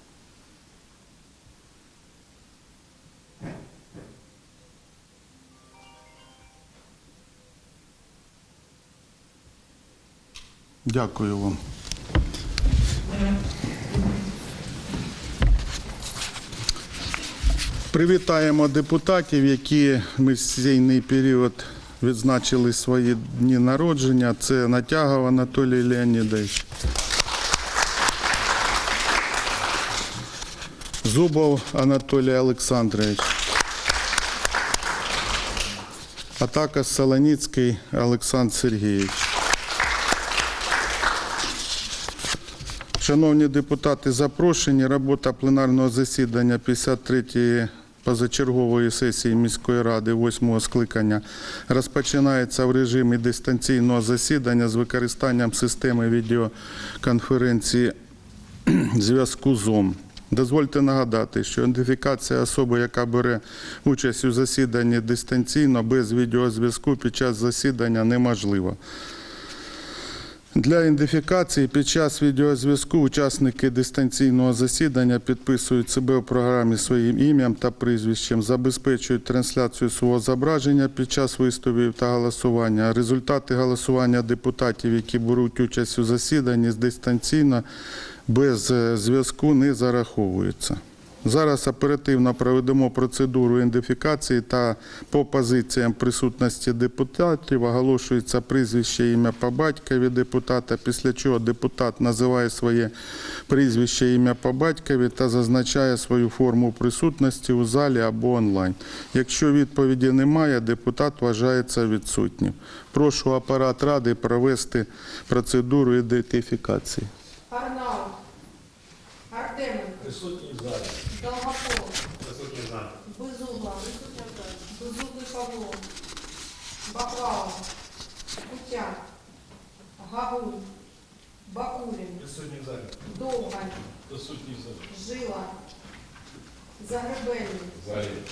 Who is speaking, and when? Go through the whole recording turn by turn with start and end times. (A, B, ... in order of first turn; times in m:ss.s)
0:10.8-0:11.6 A
0:17.9-0:26.6 A
0:31.0-0:33.3 A
0:36.4-0:39.3 A
0:43.0-0:57.9 A
0:58.6-1:08.8 A
1:10.5-1:27.6 A
1:28.3-1:42.9 A
1:43.5-1:57.1 A
1:57.5-1:58.2 B
1:59.3-2:00.1 B
2:00.1-2:00.9 C
2:01.1-2:02.0 B
2:02.2-2:02.9 C
2:03.0-2:04.0 B
2:04.6-2:05.8 B
2:06.8-2:07.6 B
2:08.4-2:09.0 B
2:10.0-2:10.7 B
2:11.4-2:12.3 B
2:12.3-2:12.9 C
2:13.0-2:13.9 B
2:14.1-2:14.8 C
2:14.8-2:15.6 B
2:16.8-2:17.8 B